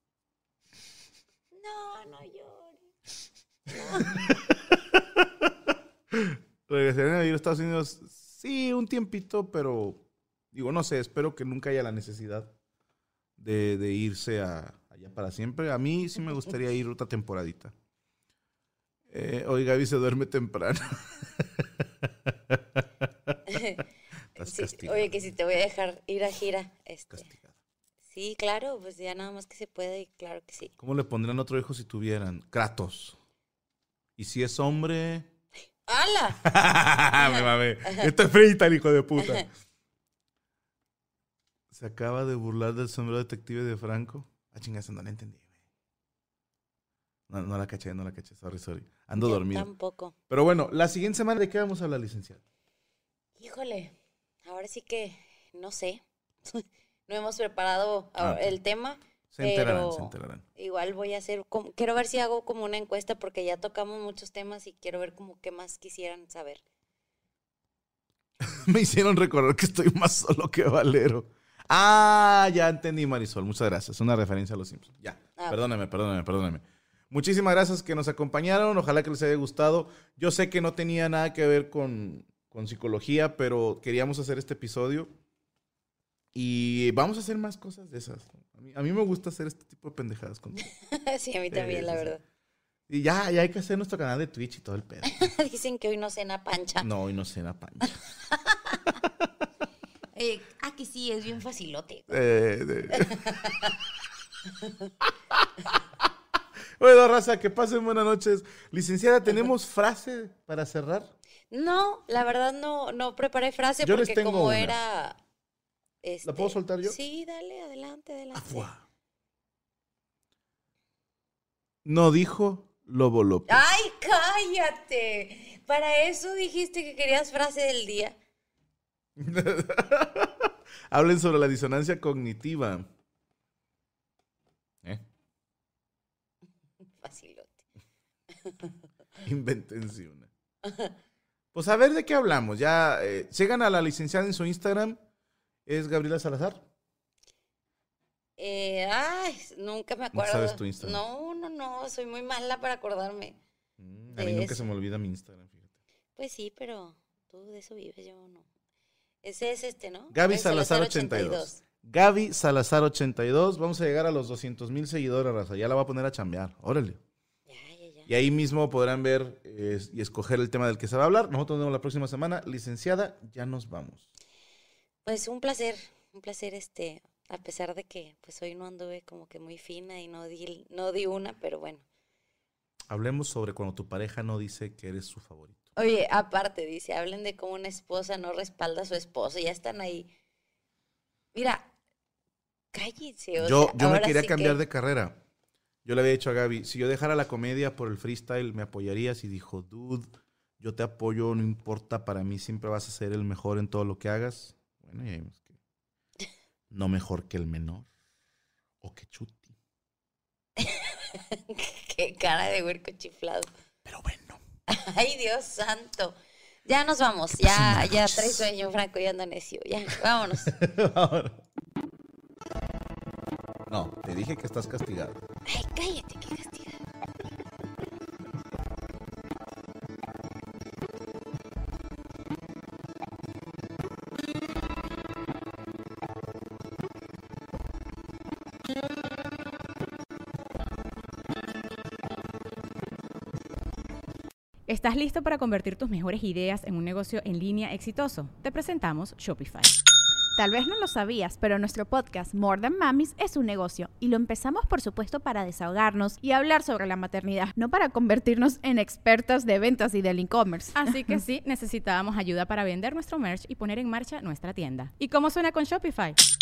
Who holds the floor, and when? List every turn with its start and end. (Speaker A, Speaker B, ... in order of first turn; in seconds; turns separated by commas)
Speaker A: 1.5-2.9, Speaker A: 3.7-4.3, Speaker B: 4.1-5.5, Speaker B: 6.1-12.5, Speaker B: 13.4-17.7, Speaker B: 19.1-23.6, Speaker A: 23.5-23.8, Speaker B: 24.4-25.2, Speaker A: 24.4-27.3, Speaker B: 27.1-27.6, Speaker A: 28.1-30.7, Speaker B: 30.8-33.2, Speaker B: 34.2-35.3, Speaker A: 35.9-36.5, Speaker B: 36.4-39.5, Speaker A: 37.2-38.1, Speaker A: 39.2-39.5, Speaker B: 41.7-45.5, Speaker B: 47.3-49.7, Speaker A: 49.1-50.1, Speaker B: 50.3-52.4, Speaker A: 53.4-66.6, Speaker B: 58.2-58.6, Speaker B: 59.3-60.4, Speaker B: 68.4-85.1, Speaker B: 86.3-90.7, Speaker A: 90.6-92.2, Speaker B: 91.5-92.1, Speaker B: 92.9-95.3, Speaker A: 95.0-96.9, Speaker B: 96.8-98.0, Speaker A: 98.3-99.0, Speaker B: 99.0-99.5, Speaker A: 100.1-102.2, Speaker B: 102.1-103.4, Speaker A: 102.9-103.8, Speaker A: 104.6-104.9, Speaker B: 105.3-106.0, Speaker B: 106.8-111.2, Speaker A: 111.5-115.2, Speaker B: 113.8-114.8, Speaker A: 116.0-118.7, Speaker B: 116.2-117.0, Speaker B: 118.3-118.8, Speaker B: 121.8-123.6, Speaker A: 123.5-128.2, Speaker B: 129.2-132.9, Speaker A: 137.0-137.6, Speaker A: 138.4-138.7, Speaker B: 139.2-140.3, Speaker A: 140.6-140.9, Speaker B: 141.5-145.0, Speaker B: 145.7-146.7, Speaker A: 148.4-153.4, Speaker B: 150.1-151.0, Speaker B: 153.8-155.8, Speaker A: 154.1-154.6, Speaker A: 156.2-158.5, Speaker A: 159.2-161.6, Speaker B: 160.1-167.0, Speaker A: 167.5-168.1, Speaker B: 168.1-174.1, Speaker A: 175.1-181.8, Speaker B: 182.9-185.7, Speaker A: 185.8-190.1, Speaker A: 191.3-191.7, Speaker A: 192.7-194.6, Speaker B: 193.4-195.2, Speaker B: 195.8-200.1, Speaker B: 200.6-205.6, Speaker B: 206.7-207.9, Speaker B: 208.8-209.6, Speaker A: 210.6-213.5, Speaker B: 213.8-214.4, Speaker A: 214.7-220.5, Speaker B: 217.3-218.5, Speaker B: 220.5-221.4, Speaker B: 223.7-225.2, Speaker A: 225.5-226.8, Speaker C: 244.7-249.7, Speaker D: 250.4-261.2, Speaker C: 260.8-266.2